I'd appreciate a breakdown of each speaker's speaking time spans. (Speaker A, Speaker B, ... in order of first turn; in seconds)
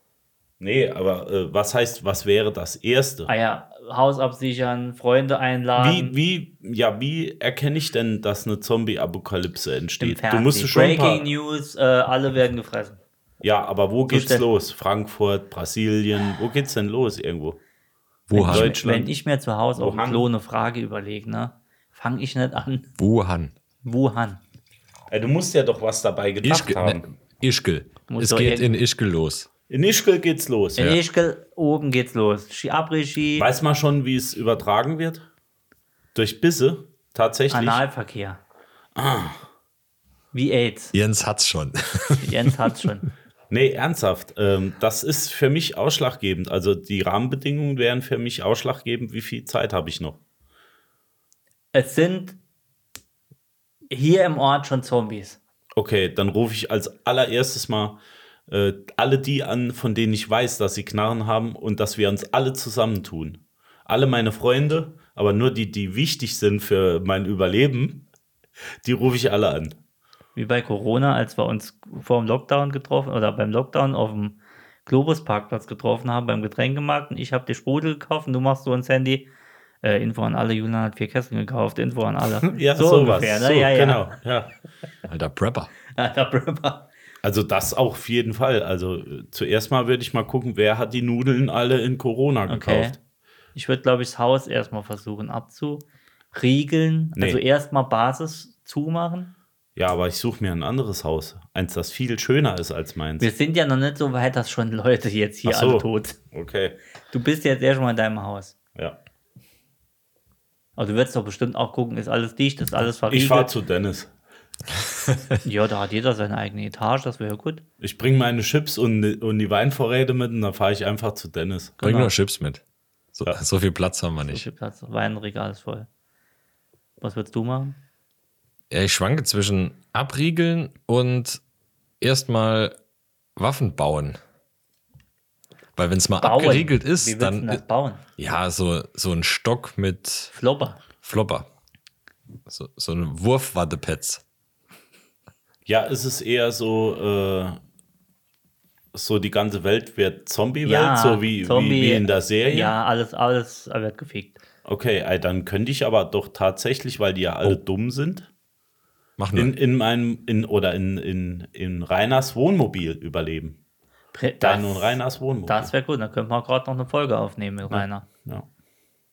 Speaker A: 0.6-3.3, 5.8-11.3, 13.4-17.6, 18.4-19.1, 19.8-20.3, 25.1-27.1, 29.7-31.0, 33.4-35.2, 36.1-37.8, 39.0-39.4, 43.5-50.2, 55.8-68.0, 68.8-69.8, 82.5-84.5, 87.2-93.0, 97.2-97.4, 99.8-103.3, 105.5-106.8, 113.1-114.1, 117.8-121.8, 145.7-147.6, 148.9-152.8, 154.7-158.3, 159.3-163.6, 164.4-165.7, 167.7-168.5
Speaker B: 3.3-6.2, 10.0-13.0, 14.1-14.5, 18.3-22.9, 23.8-24.4, 28.1-28.7, 30.8-33.5, 37.5-38.4, 40.3-40.9, 42.2-43.1, 51.7-52.4, 53.9-55.4, 70.3-79.3, 79.8-84.1, 85.9-86.9, 92.5-93.0, 93.5-99.3, 103.2-106.2, 107.1-108.5, 110.8-113.5, 115.4-117.6, 121.8-122.1, 124.2-125.9, 127.0-127.8, 136.2-138.0, 140.3-140.8, 150.7-154.4, 164.1-168.1
Speaker C: 18.3-18.8, 23.0-23.5, 26.4-29.5, 40.9-42.5, 85.1-85.7, 121.8-122.6, 123.1-124.5, 128.7-131.4, 132.0-132.8, 133.4-134.2, 135.8-137.6, 138.2-140.3, 141.0-141.5, 142.5-144.2, 159.2-159.5